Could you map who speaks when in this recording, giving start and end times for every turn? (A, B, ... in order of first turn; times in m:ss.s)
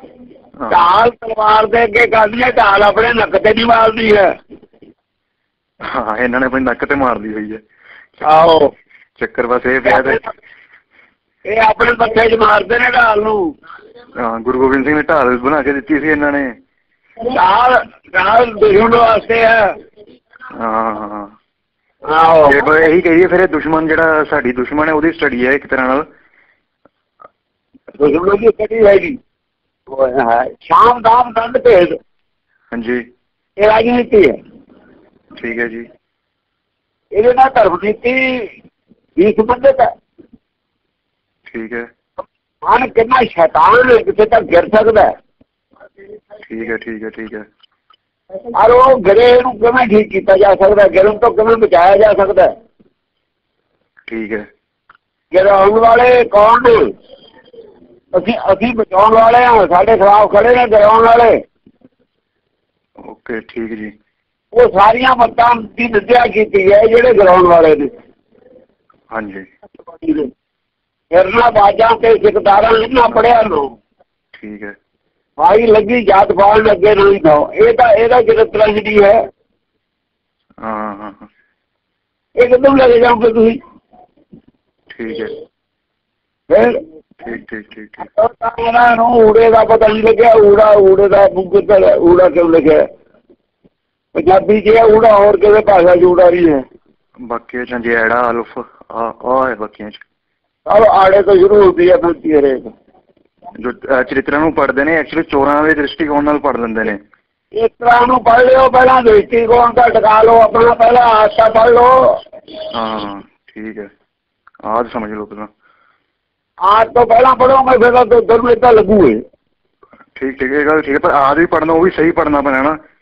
0:00.7-0:04.3 A
0:05.8-0:07.6 B
0:08.2-0:08.7 A
0:09.2-0:10.2 B
0:09.8-0:10.2 A
0:11.4-0:13.5 A
0:14.2-0:16.5 B
0:17.3-0:19.7 A
0:20.5-0:21.3 B
0:22.1-0:22.7 A
0:22.5-0:26.0 B
0:28.0-0:29.2 A
0:29.9-0:32.0 A
0:32.7-0:33.0 B
0:33.6-0:34.3 A
0:35.4-0:35.9 B
0:37.1-0:38.5 A
0:39.2-0:39.9 A
0:41.5-0:41.9 B
0:42.6-0:45.1 A
0:46.4-0:47.4 B
0:48.5-0:52.5 A
0:54.1-0:54.4 B
0:55.3-0:56.9 A
0:58.1-1:01.4 A
1:03.0-1:03.9 B
1:04.5-1:07.9 A
1:09.1-1:09.4 B
1:10.0-1:10.3 A
1:11.1-1:13.7 A
1:14.3-1:14.7 B
1:15.4-1:19.2 A
1:20.6-1:21.2 B
1:22.4-1:23.6 A
1:24.9-1:25.3 B
1:26.5-1:26.8 A
1:27.2-1:28.0 B
1:28.0-1:32.8 A
1:34.1-1:36.6 A
1:37.2-1:40.0 B
1:40.6-1:42.7 A
1:43.5-1:47.0 B
1:47.5-1:52.1 A
1:52.7-1:53.9 B
1:54.7-1:55.5 B
1:56.6-1:59.2 A
2:00.2-2:02.8 B